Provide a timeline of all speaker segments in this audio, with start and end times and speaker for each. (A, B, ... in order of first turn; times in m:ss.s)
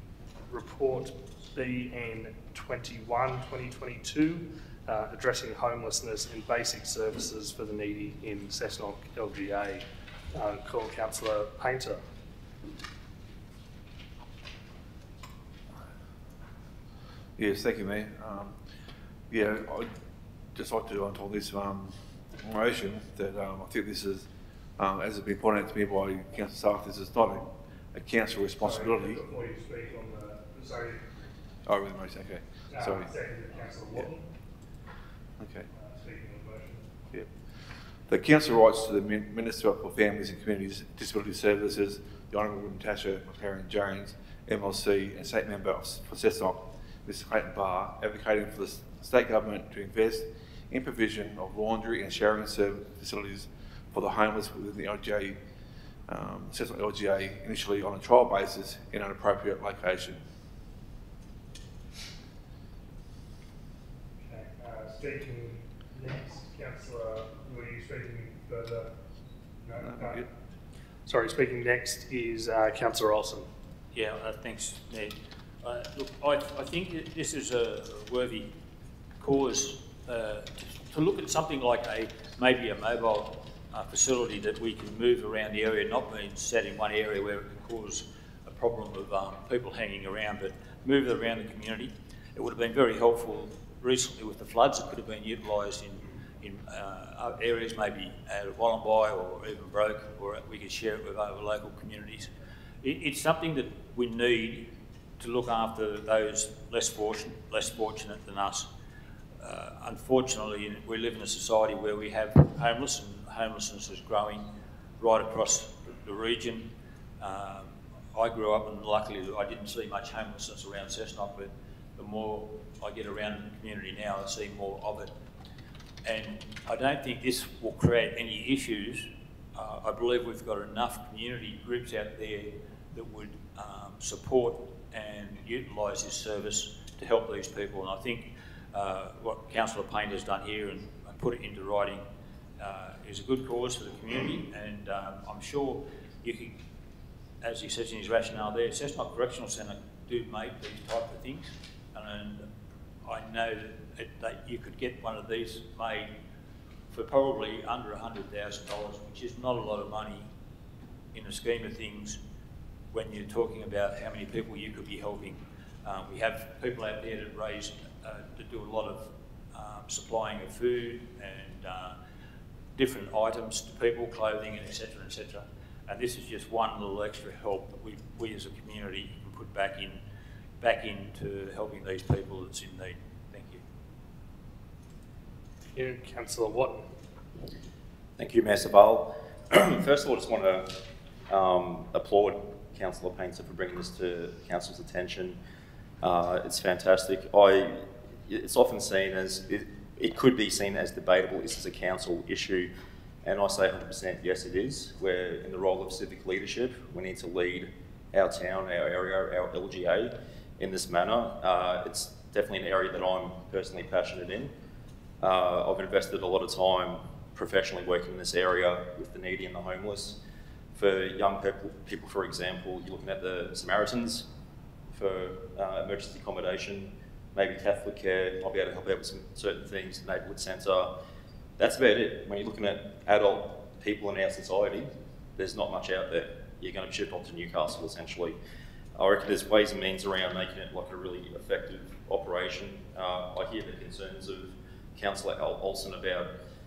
0:00.5-0:12.0 A
0:17.4-0:18.6 B
0:19.3-0:19.9 B
0:20.5-0:29.2 B
0:28.6-0:31.0 A
0:31.6-0:33.1 B
0:32.7-0:34.2 A
0:35.4-0:35.7 B
0:35.8-0:36.8 A
0:38.0-0:55.4 B
0:56.1-1:00.2 B
1:04.3-1:08.9 A
1:09.6-1:10.2 A
1:09.8-1:10.3 B
1:11.1-1:13.5 A
1:13.9-1:18.5 C
1:19.2-1:42.3 C
1:42.8-1:48.7 C
1:49.4-2:05.1 C
2:06.0-2:22.0 C
2:22.6-2:26.6 C
2:27.4-2:32.5 C
2:33.0-2:36.1 C
2:36.9-2:40.3 C
2:41.1-2:42.2 C
2:42.9-2:52.0 C
2:52.8-3:00.0 C
3:00.6-3:03.6 C
3:05.7-3:06.8 A
3:08.2-3:15.4 D
3:16.0-3:22.7 D
3:23.2-3:34.5 D
3:35.2-3:40.2 D
3:40.7-3:44.3 D
3:44.9-3:50.9 D
3:51.6-3:58.4 D
3:59.0-4:06.3 D